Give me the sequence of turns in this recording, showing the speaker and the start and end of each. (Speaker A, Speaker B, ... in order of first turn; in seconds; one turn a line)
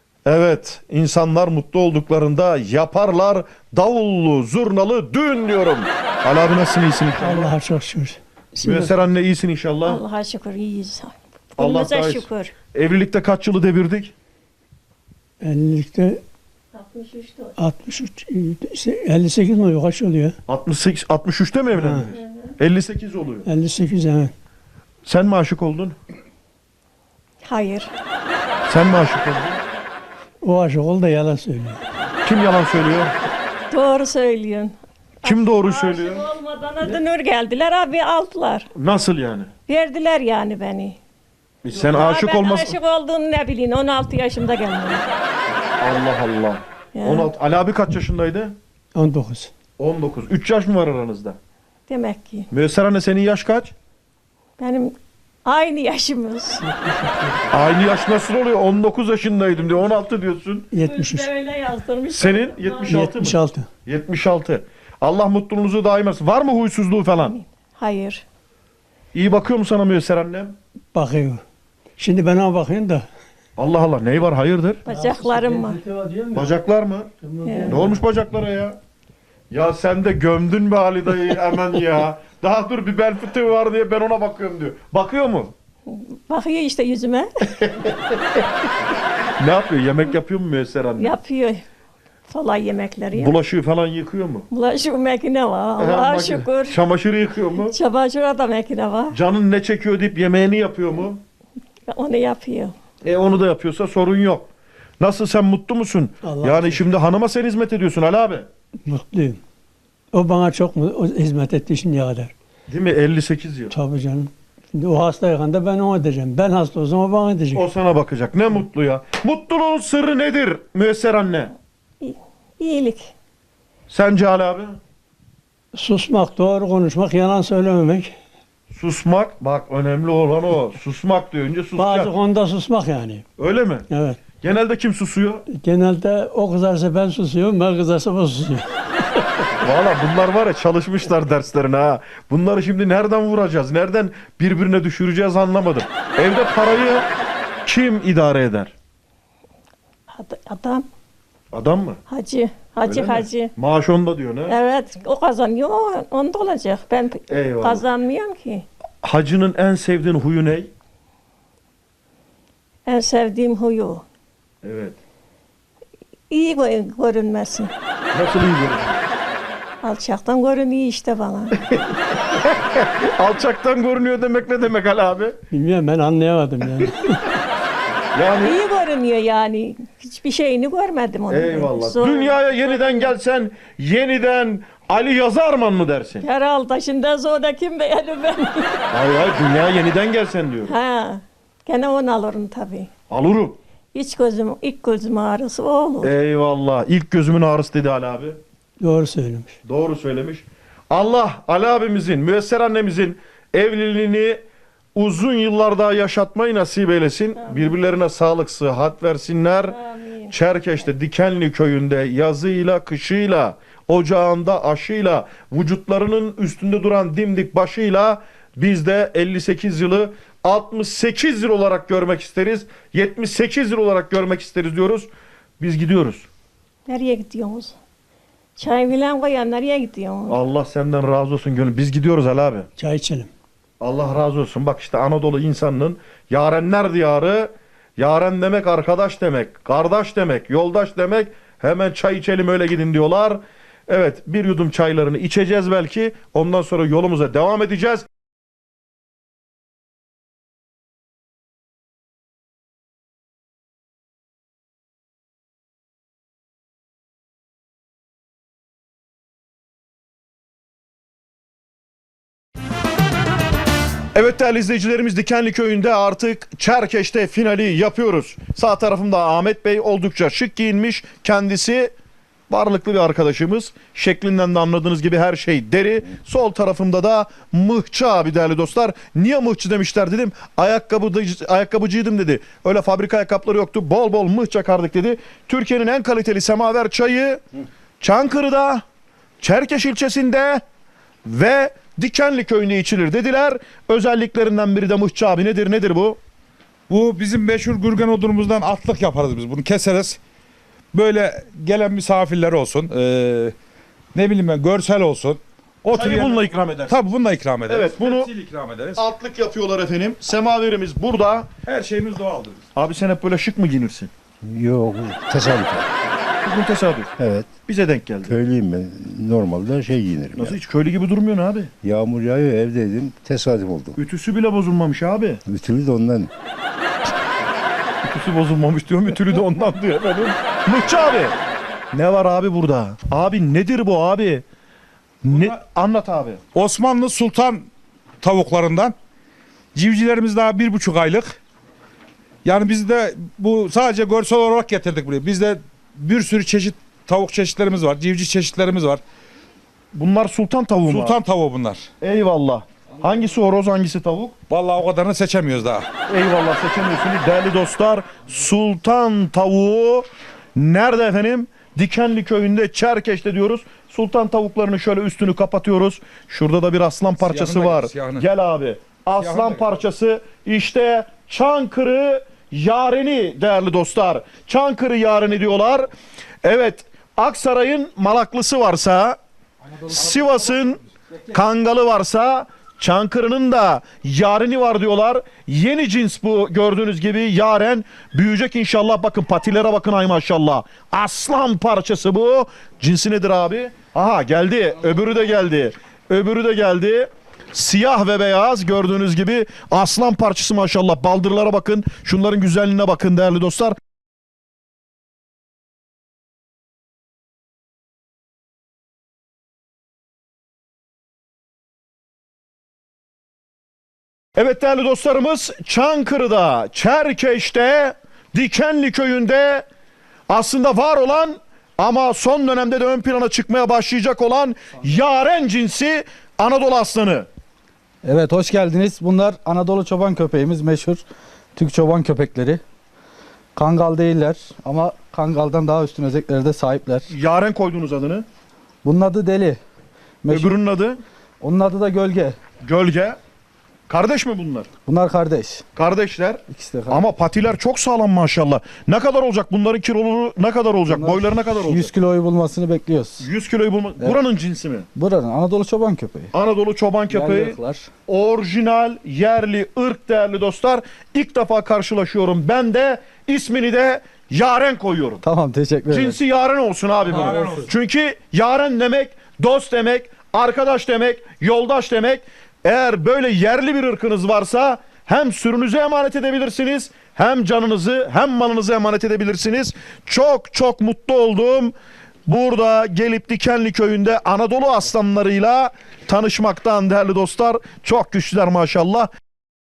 Speaker A: 0.2-7.5
Speaker B: 7.2-8.9
Speaker A: 8.6-10.0
Speaker C: 9.8-12.5
Speaker A: 11.6-14.1
Speaker B: 15.4-16.2
Speaker C: 16.7-17.5
Speaker B: 17.6-20.4
Speaker A: 20.5-23.5
Speaker B: 21.7-22.1
Speaker C: 22.2-22.5
Speaker B: 23.4-24.3
Speaker A: 25.1-25.9
Speaker C: 27.4-27.9
Speaker A: 28.7-29.6
Speaker B: 30.4-31.8
Speaker A: 32.2-33.1
Speaker C: 33.7-38.7
Speaker A: 35.2-36.3
Speaker A: 38.7-39.5
Speaker C: 39.7-41.0
Speaker A: 41.6-42.7
Speaker C: 41.7-45.1
Speaker A: 45.8-48.5
Speaker C: 46.9-47.3
Speaker B: 48.9-49.5
Speaker A: 49.8-51.4
Speaker C: 51.9-52.5
Speaker A: 52.5-53.7
Speaker C: 54.6-54.9
Speaker C: 55.4-56.6
Speaker B: 56.6-57.5
Speaker A: 57.5-60.7
Speaker B: 60.7-61.3
Speaker C: 60.8-63.0
Speaker A: 62.1-67.3
Speaker B: 62.9-63.7
Speaker C: 67.2-68.2
Speaker A: 69.1-70.5
Speaker B: 70.9-71.4
Speaker B: 72.0-73.1
Speaker A: 73.6-74.8
Speaker C: 74.8-75.8
Speaker B: 74.9-76.6
Speaker A: 76.3-77.1
Speaker B: 77.2-78.0
Speaker C: 77.4-77.8
Speaker A: 77.7-78.8
Speaker A: 79.5-85.5
Speaker C: 85.9-87.3
Speaker A: 87.6-88.4
Speaker A: 89.4-91.1
Speaker C: 91.0-91.6
Speaker C: 92.3-93.3
Speaker A: 93.1-94.5
Speaker C: 94.5-96.8
Speaker A: 95.8-97.7
Speaker C: 97.6-99.1
Speaker A: 99.1-101.2
Speaker C: 101.9-102.7
Speaker A: 103.0-104.5
Speaker A: 105.0-108.5
Speaker B: 106.2-107.0
Speaker B: 108.8-109.4
Speaker B: 110.1-112.3
Speaker A: 112.7-113.7
Speaker B: 113.7-117.7
Speaker A: 117.5-121.5
Speaker C: 122.0-123.1
Speaker A: 123.9-124.8
Speaker B: 125.7-128.1
Speaker A: 128.7-132.1
Speaker B: 131.7-133.2
Speaker A: 133.4-133.8
Speaker B: 133.9-134.2
Speaker A: 134.4-135.4
Speaker B: 135.5-139.5
Speaker A: 139.6-147.1
Speaker A: 147.6-148.7
Speaker C: 150.1-150.8
Speaker A: 151.5-152.0
Speaker C: 152.1-153.5
Speaker A: 152.8-154.6
Speaker C: 154.5-158.7
Speaker A: 157.3-157.8
Speaker A: 159.0-160.7
Speaker C: 162.8-164.0
Speaker A: 164.6-165.0
Speaker C: 166.3-167.7
Speaker A: 168.1-169.0
Speaker C: 169.8-171.5
Speaker A: 171.7-175.4
Speaker B: 175.5-177.4
Speaker A: 178.1-178.5
Speaker C: 178.4-183.1
Speaker A: 181.3-186.2
Speaker C: 186.2-188.8
Speaker A: 188.9-190.7
Speaker C: 190.7-192.9
Speaker A: 193.1-193.6
Speaker C: 193.9-196.1
Speaker A: 196.0-198.4
Speaker B: 198.8-199.6
Speaker A: 199.6-204.4
Speaker A: 204.9-209.7
Speaker C: 207.4-207.7
Speaker C: 209.7-210.3
Speaker A: 210.3-225.1
Speaker A: 225.6-226.3
Speaker C: 226.9-227.8
Speaker C: 228.6-230.4
Speaker A: 230.3-232.7
Speaker B: 232.8-233.3
Speaker A: 233.8-248.1
Speaker A: 264.1-271.9
Speaker A: 272.5-287.4
Speaker A: 288.0-288.8
Speaker A: 289.4-290.6
Speaker A: 291.2-296.2
Speaker D: 296.9-300.2
Speaker D: 300.9-303.5
Speaker D: 304.1-309.0
Speaker A: 305.9-307.0
Speaker A: 307.7-308.3
Speaker A: 308.9-311.5
Speaker D: 311.6-312.6
Speaker A: 312.7-314.1
Speaker E: 314.4-315.9
Speaker A: 316.4-317.1
Speaker E: 317.2-317.5
Speaker A: 317.7-318.3
Speaker E: 318.2-320.6
Speaker A: 320.4-321.7
Speaker E: 321.8-324.0
Speaker A: 324.0-325.4
Speaker E: 325.4-326.3
Speaker A: 328.0-331.3
Speaker A: 331.9-334.4
Speaker A: 335.2-336.4
Speaker D: 335.2-335.6
Speaker D: 336.5-337.6
Speaker D: 338.2-338.9
Speaker D: 339.7-341.4
Speaker D: 342.4-349.0
Speaker A: 349.9-351.2
Speaker D: 350.9-351.9
Speaker A: 352.0-354.3
Speaker D: 354.5-355.9
Speaker A: 356.1-375.9
Speaker D: 367.2-368.3
Speaker D: 369.1-369.7
Speaker A: 376.4-379.2
Speaker A: 379.9-403.8
Speaker A: 414.4-419.6
Speaker A: 420.3-427.3
Speaker F: 428.0-431.0
Speaker F: 431.6-432.6
Speaker F: 433.5-437.1
Speaker A: 437.1-438.2
Speaker F: 438.8-439.6
Speaker F: 440.2-440.6
Speaker A: 440.3-441.0
Speaker F: 441.4-442.4
Speaker A: 442.6-443.2
Speaker A: 443.9-444.7
Speaker F: 444.9-445.6
Speaker A: 445.7-451.9
Speaker F: 446.5-447.1
Speaker F: 450.9-453.3
Speaker A: 453.2-454.9
Speaker F: 454.9-456.3
Speaker A: 456.3-465.2
Speaker F: 457.1-457.9
Speaker F: 465.2-466.2
Speaker A: 465.9-481.7
Speaker D: 467.1-467.7
Speaker F: 467.1-467.7
Speaker A: 482.3-489.1